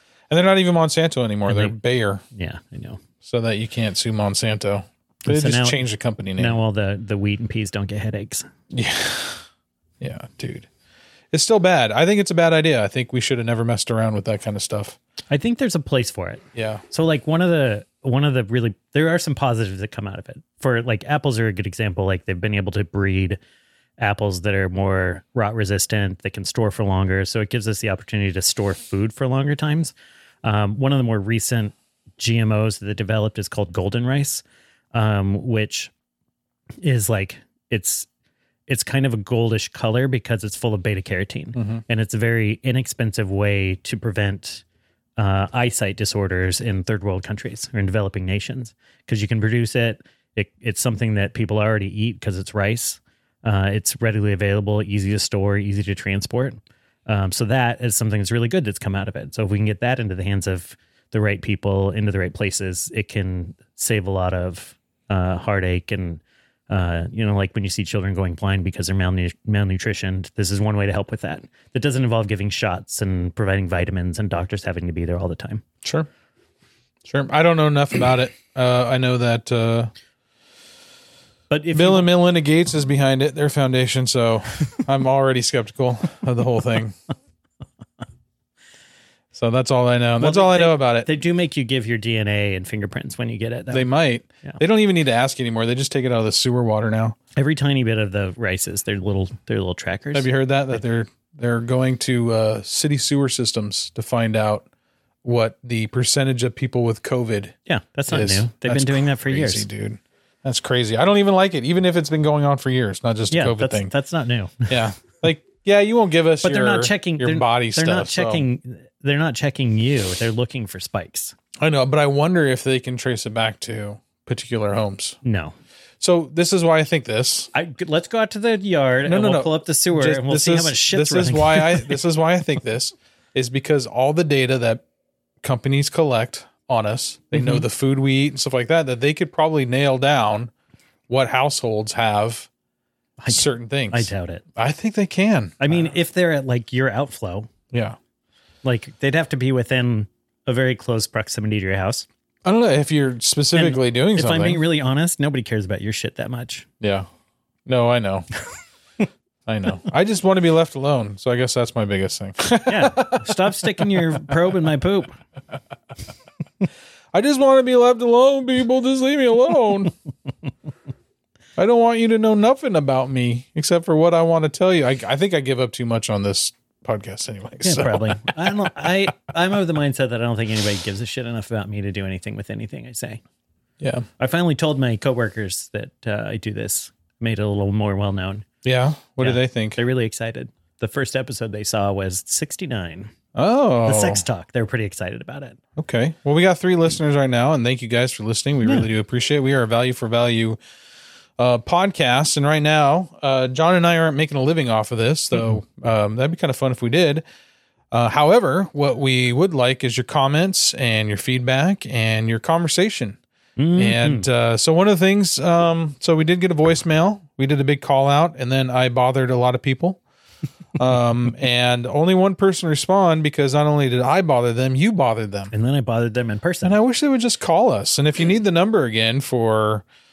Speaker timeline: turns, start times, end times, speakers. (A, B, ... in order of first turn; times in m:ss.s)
0:00.3-0:02.2 A
0:01.5-0:01.8 B
0:02.3-0:03.0 B
0:03.2-0:06.6 A
0:05.3-0:05.8 B
0:06.4-0:08.5 B
0:08.7-0:09.4 A
0:10.0-0:10.7 A
0:11.3-0:15.0 A
0:15.3-0:23.4 B
0:16.5-0:16.8 A
0:24.0-0:29.9 B
0:30.4-0:35.9 B
0:36.8-0:38.1 B
0:38.7-0:44.6 B
0:41.6-0:41.8 A
0:45.2-1:15.6 B
1:17.0-1:19.9 A
1:21.5-1:22.1 B
1:21.7-1:27.0 A
1:29.3-1:31.1 A
1:30.2-1:33.9 B
1:33.7-1:37.2 A
1:37.4-1:40.3 B
1:40.1-1:44.7 A
1:45.2-1:47.6 A
1:47.7-1:49.7 B
1:48.1-1:53.9 A
1:53.3-1:54.8 B
1:54.7-1:58.4 A
1:56.4-2:01.4 B
2:01.6-2:05.2 A
2:05.2-2:05.6 B
2:06.0-2:07.5 A
2:07.5-2:12.0 B
2:09.0-2:14.8 A
2:15.4-2:20.5 A
2:17.3-2:17.6 B
2:21.1-2:22.5 A
2:23.2-2:24.4 B
2:23.3-2:25.9 A
2:25.6-2:27.5 B
2:27.7-2:28.0 A
2:28.6-2:32.1 B
2:32.4-2:34.6 A
2:33.5-2:36.7 B
2:36.8-2:37.1 A
2:37.7-2:38.3 A
2:39.5-2:44.0 A
2:42.7-2:45.2 B
2:47.1-2:49.9 A
2:51.6-2:58.7 A
2:57.6-3:03.2 B
3:03.8-3:04.1 A
3:04.2-3:08.5 B
3:08.6-3:09.8 A
3:09.2-3:13.1 B
3:13.4-3:14.2 A
3:13.9-3:15.6 B
3:15.8-3:20.6 A
3:21.4-3:27.2 A
3:27.9-3:33.2 A
3:33.6-3:34.3 B
3:33.8-3:40.0 A
3:40.8-3:45.5 A
3:45.5-3:46.8 B
3:46.6-3:49.8 A